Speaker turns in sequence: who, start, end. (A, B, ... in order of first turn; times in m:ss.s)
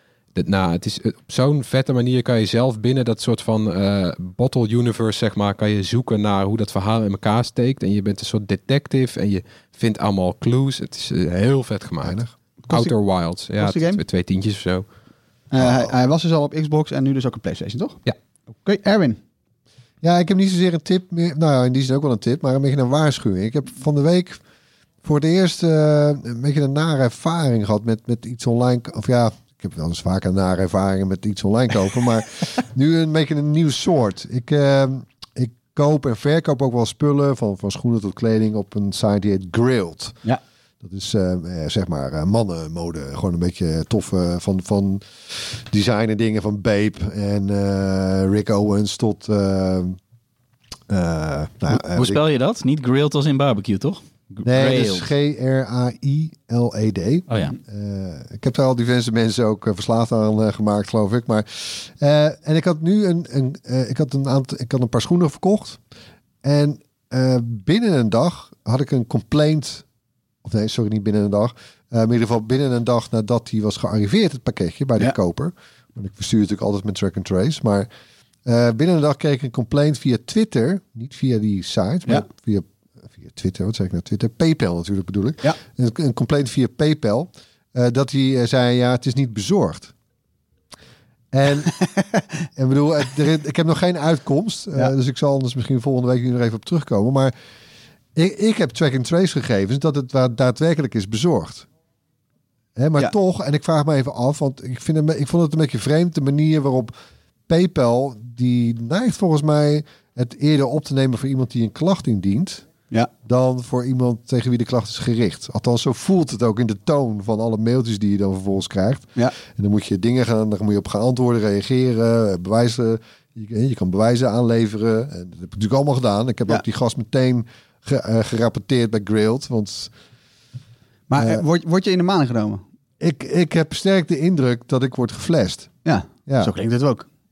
0:00.4-0:14.8 A
0:12.0-0:12.3 B
0:12.7-0:13.0 C
0:13.6-0:14.0 C
0:15.5-0:18.0 C
0:15.6-0:15.8 B
0:18.6-0:19.2 C
0:20.0-0:24.4 B
0:25.0-0:40.2 B
0:40.8-0:50.0 B
0:50.9-0:52.2 B
0:51.7-0:55.1 D
0:54.4-1:05.8 B
0:57.3-0:57.6 D
1:06.4-1:09.8 B
1:10.4-1:17.9 B
1:18.5-1:29.9 B
1:31.3-1:31.7 B
1:32.6-1:37.3 B
1:38.2-1:41.7 B
1:42.8-1:46.9 B
1:47.5-1:52.7 B
1:53.2-2:09.9 B
2:11.1-2:12.6 C
2:11.2-2:11.4 B
2:13.0-2:15.8 B
2:15.8-2:17.1 C
2:16.3-2:16.5 B